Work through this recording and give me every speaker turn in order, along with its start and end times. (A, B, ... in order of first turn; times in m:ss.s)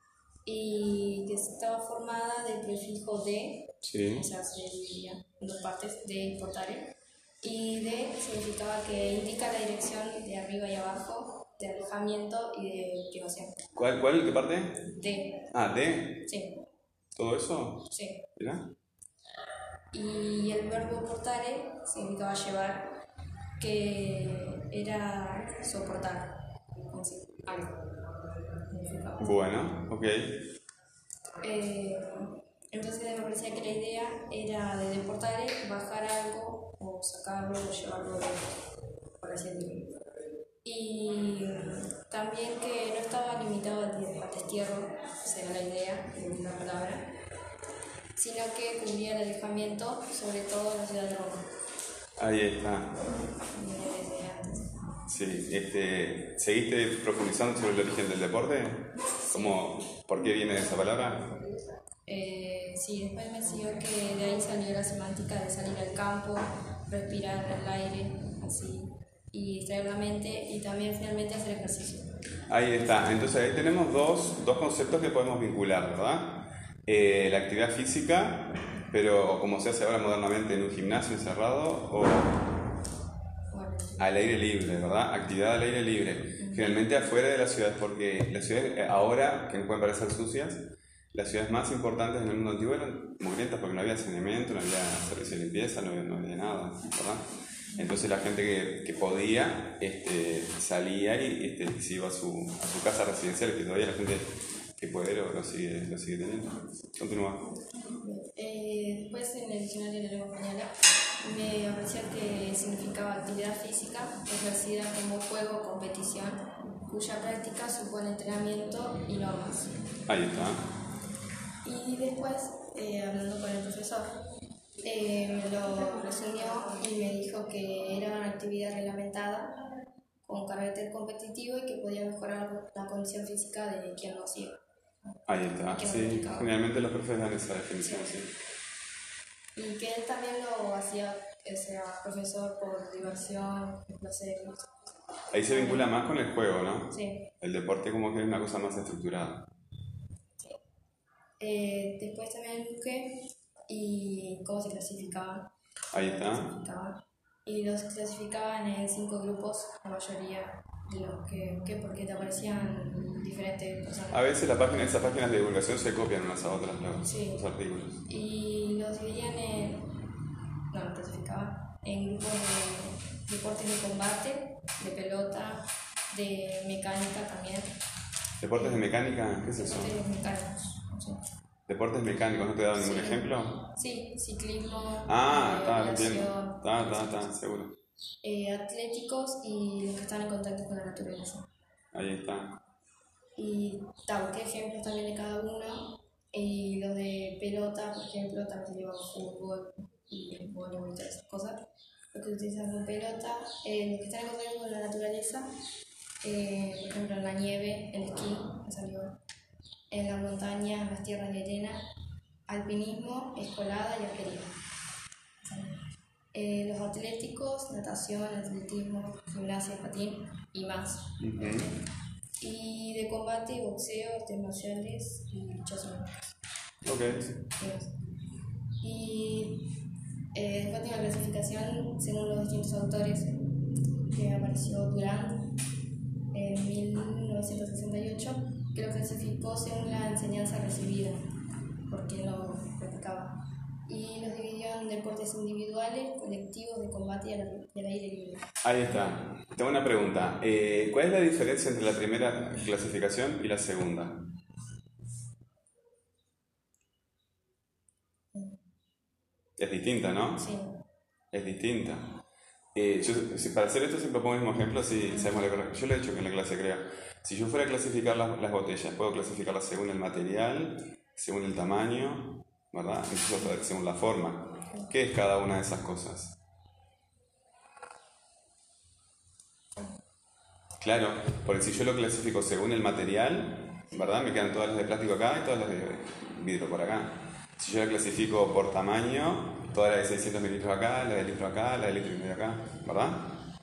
0:00.4-0:13.6 A
0:03.8-0:04.2 B
0:13.8-0:14.8 B
0:14.9-0:15.5 A
0:15.5-0:16.2 B
0:16.3-0:16.5 A
0:17.1-0:18.7 B
0:17.9-0:18.2 A
0:19.9-0:23.0 A
0:23.6-0:26.4 A
0:26.9-0:27.8 A
0:28.7-0:29.4 A
0:29.2-0:30.4 B
0:31.4-0:38.5 A
0:39.2-0:39.9 A
0:40.6-0:47.1 A
0:48.2-0:51.5 A
0:52.2-0:52.9 B
0:53.5-0:54.8 A
0:55.1-1:01.2 B
0:59.2-0:59.6 A
1:00.8-1:12.1 A
1:12.5-1:22.4 B
1:23.5-1:24.1 A
1:24.0-1:37.2 B
1:26.4-1:26.6 A
1:37.8-1:47.4 B
1:48.0-1:59.8 A
2:00.1-2:00.6 B
2:01.6-2:04.1 A
2:04.8-2:09.6 A
2:10.2-2:16.5 A
2:15.3-2:18.3 B
2:17.8-2:18.1 A
2:19.6-2:24.7 A
2:25.3-2:29.5 B
2:25.5-2:25.9 A
2:26.9-2:27.3 A
2:31.4-2:44.2 A
2:35.9-2:36.5 B
2:44.1-2:48.0 B
2:47.0-2:47.4 A
2:48.0-2:49.9 A
2:50.7-2:57.7 A
2:58.4-2:59.9 B
2:58.6-2:58.9 A
2:59.5-3:01.2 A
3:01.7-3:03.6 B
3:02.7-3:07.3 A
3:05.1-3:07.8 B
3:08.2-3:11.5 A
3:11.9-3:12.6 B
3:13.4-3:25.5 A
3:26.2-3:29.2 A
3:29.9-3:31.8 A
3:32.5-3:34.5 A
3:35.4-3:35.8 A
3:36.3-3:41.8 A
3:41.2-3:41.7 B
3:42.4-3:46.3 A
3:46.8-3:47.3 B
3:47.3-3:47.9 A
3:48.8-3:49.7 A
3:50.3-3:53.5 A
3:54.1-3:55.5 A
3:56.3-4:01.2 A
4:01.9-4:08.5 A
4:08.6-4:14.2 B
4:18.3-4:18.6 A
4:19.6-4:20.4 B
4:20.4-4:20.8 A
4:21.3-4:22.1 B
4:22.7-4:36.3 B
4:25.1-4:25.3 A
4:40.8-4:53.3 B